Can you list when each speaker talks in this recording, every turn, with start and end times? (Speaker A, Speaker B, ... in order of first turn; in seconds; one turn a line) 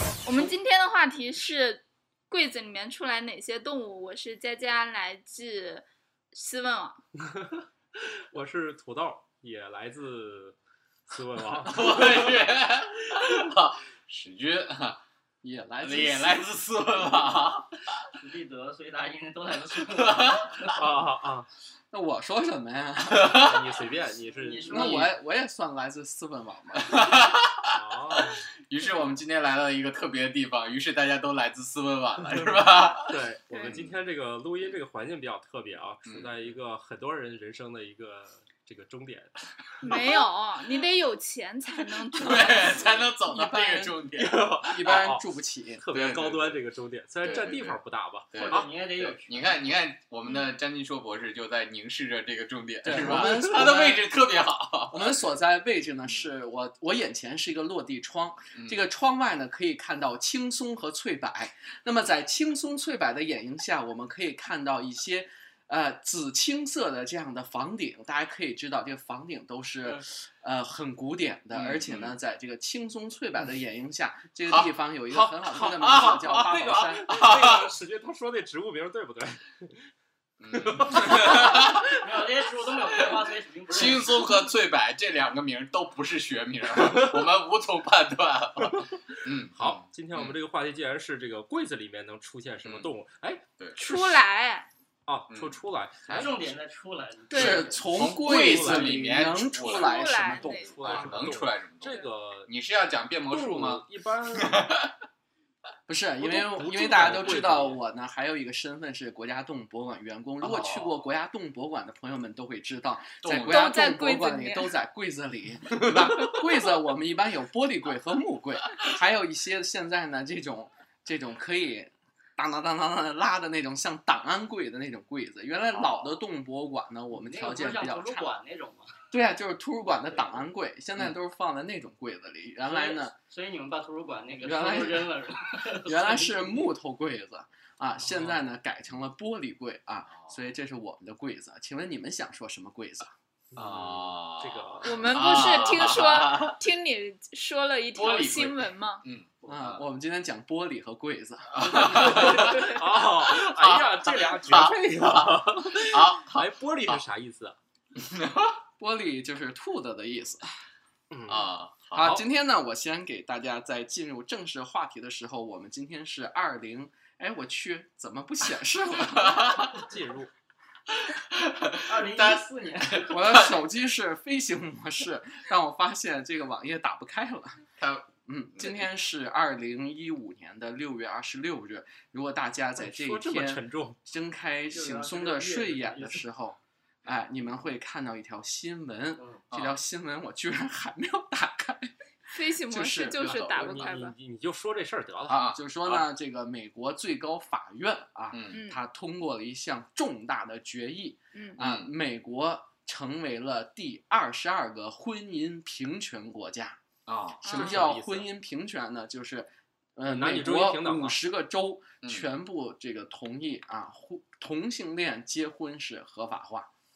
Speaker A: 0.2-7.0
Speaker B: 8.3-10.6
Speaker B: 11.1-12.3
Speaker C: 11.7-15.0
Speaker D: 15.4-16.5
Speaker C: 15.8-17.7
Speaker E: 18.2-20.7
Speaker C: 19.9-20.7
Speaker B: 20.7-21.5
Speaker D: 21.9-23.5
Speaker C: 23.1-23.6
Speaker B: 23.3-25.1
Speaker E: 24.3-25.0
Speaker D: 24.7-27.0
Speaker C: 24.7-25.0
Speaker C: 26.8-27.7
Speaker B: 27.7-28.5
Speaker C: 28.7-34.0
Speaker B: 33.1-39.4
Speaker A: 33.5-33.8
Speaker C: 36.1-36.5
Speaker A: 39.8-42.9
Speaker C: 42.1-45.1
Speaker D: 43.1-44.0
Speaker B: 44.2-45.2
Speaker D: 44.7-45.9
Speaker B: 45.8-48.7
Speaker C: 45.9-46.6
Speaker C: 47.2-55.2
Speaker E: 48.3-49.6
Speaker D: 52.8-54.1
Speaker B: 53.2-53.7
Speaker D: 54.9-77.1
Speaker C: 58.5-58.9
Speaker C: 71.5-72.2
Speaker C: 74.5-74.7
Speaker B: 75.1-79.8
Speaker C: 75.5-77.7
Speaker C: 80.4-81.9
Speaker B: 80.6-82.0
Speaker E: 82.0-84.2
Speaker C: 83.7-90.4
Speaker B: 89.6-93.4
Speaker C: 92.6-92.9
Speaker C: 93.6-94.2
Speaker A: 93.8-94.7
Speaker B: 95.1-96.4
Speaker C: 95.3-96.3
Speaker E: 96.1-97.8
Speaker A: 97.3-97.6
Speaker D: 97.3-101.1
Speaker C: 97.4-100.0
Speaker B: 97.9-99.1
Speaker A: 99.6-100.9
Speaker B: 100.5-102.5
Speaker C: 100.8-103.8
Speaker B: 103.3-104.7
Speaker C: 104.4-104.9
Speaker D: 105.9-128.3
Speaker B: 106.2-107.8
Speaker C: 110.4-110.9
Speaker C: 113.2-113.7
Speaker A: 113.5-114.7
Speaker C: 125.7-126.0
Speaker E: 127.2-128.9
Speaker D: 129.1-133.2
Speaker E: 132.7-136.7
Speaker D: 134.4-135.1
Speaker D: 135.8-143.2
Speaker B: 143.5-145.2
Speaker C: 143.6-146.6
Speaker A: 144.8-149.0
Speaker C: 147.9-149.8
Speaker D: 149.5-152.4
Speaker C: 151.5-157.0
Speaker B: 152.1-157.6
Speaker A: 152.3-152.8
Speaker C: 158.0-158.6
Speaker D: 158.8-160.5
Speaker B: 161.1-161.5
Speaker C: 161.3-162.2
Speaker D: 161.9-169.6
Speaker C: 169.1-169.8
Speaker B: 169.7-170.3
Speaker C: 171.1-172.4
Speaker E: 171.9-173.1
Speaker C: 173.0-173.5
Speaker D: 173.1-177.6
Speaker C: 177.8-178.9
Speaker D: 178.3-191.9
Speaker B: 182.8-184.0
Speaker E: 184.7-186.2
Speaker E: 189.2-189.4
Speaker C: 189.5-189.8
Speaker A: 192.3-194.1
Speaker D: 192.7-193.9
Speaker B: 193.3-195.5
Speaker C: 195.3-196.1
Speaker D: 195.3-206.8
Speaker C: 198.3-198.6
Speaker A: 198.5-198.8
Speaker A: 201.3-201.6
Speaker C: 201.6-201.9
Speaker C: 207.1-207.7
Speaker D: 207.4-216.7
Speaker A: 207.4-207.8
Speaker B: 207.5-208.3
Speaker B: 210.1-211.2
Speaker C: 212.0-212.3